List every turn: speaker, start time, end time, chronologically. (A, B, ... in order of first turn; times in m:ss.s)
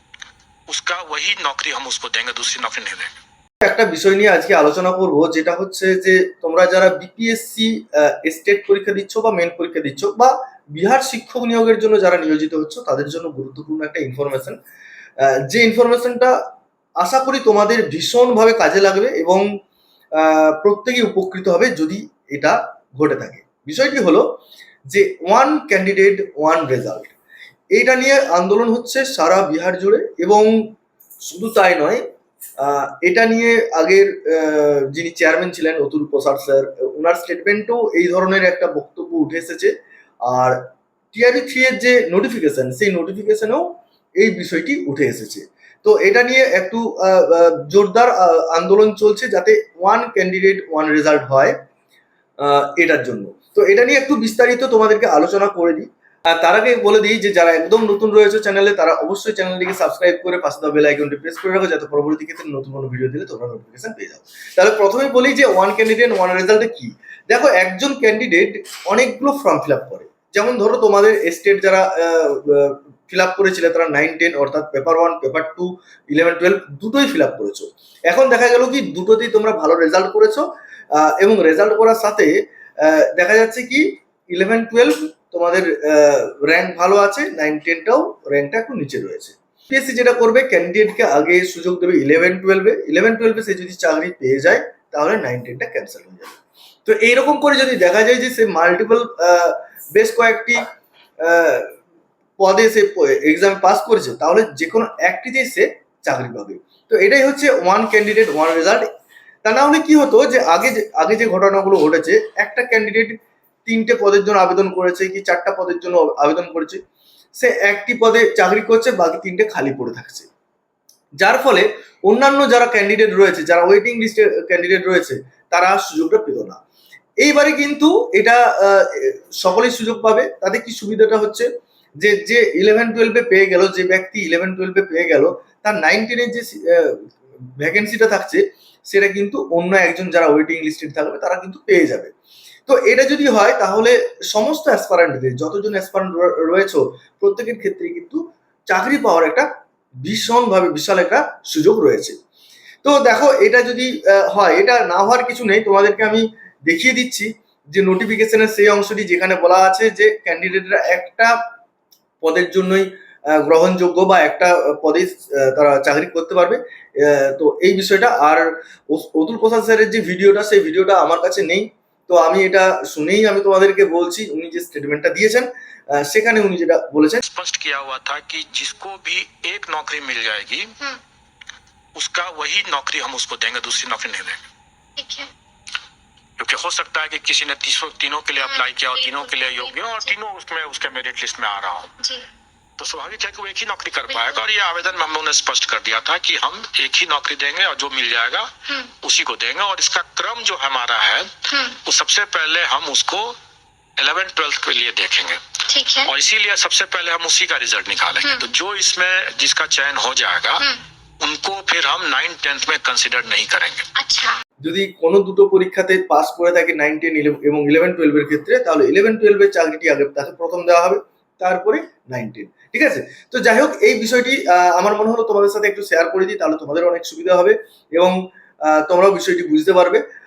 0:00.7-0:03.2 A
0:03.6-0:14.6 B
0:15.2-0:16.4 B
0:17.0-0:19.4 B
0:20.2-0:24.2 B
0:24.9-0:27.2 B
0:27.8-0:30.5 B
0:31.3-0:32.0 B
0:32.6-0:39.7 B
0:40.2-0:40.6 B
0:41.1-0:43.6 B
0:44.2-0:51.5 B
0:52.4-1:40.7 B
1:41.2-1:41.7 B
1:42.4-1:48.9 B
1:49.4-1:56.8 B
1:57.4-2:00.3 B
2:01.2-2:06.6 B
2:07.2-2:11.5 B
2:12.0-2:17.0 B
2:17.6-2:22.1 B
2:22.7-2:29.5 B
2:30.0-2:32.2 B
2:32.8-2:41.3 B
2:42.2-2:57.2 B
2:57.2-3:00.7 A
3:02.0-3:04.4 A
3:05.0-3:05.3 C
3:06.4-3:11.9 A
3:08.4-3:10.1 C
3:12.0-3:12.2 C
3:12.8-3:23.4 A
3:14.1-3:14.4 C
3:21.5-3:21.8 C
3:24.0-3:25.4 A
3:25.7-3:26.1 C
3:26.0-3:30.6 A
3:28.2-3:28.5 C
3:31.2-3:33.9 A
3:34.0-3:34.4 C
3:34.6-3:50.0 B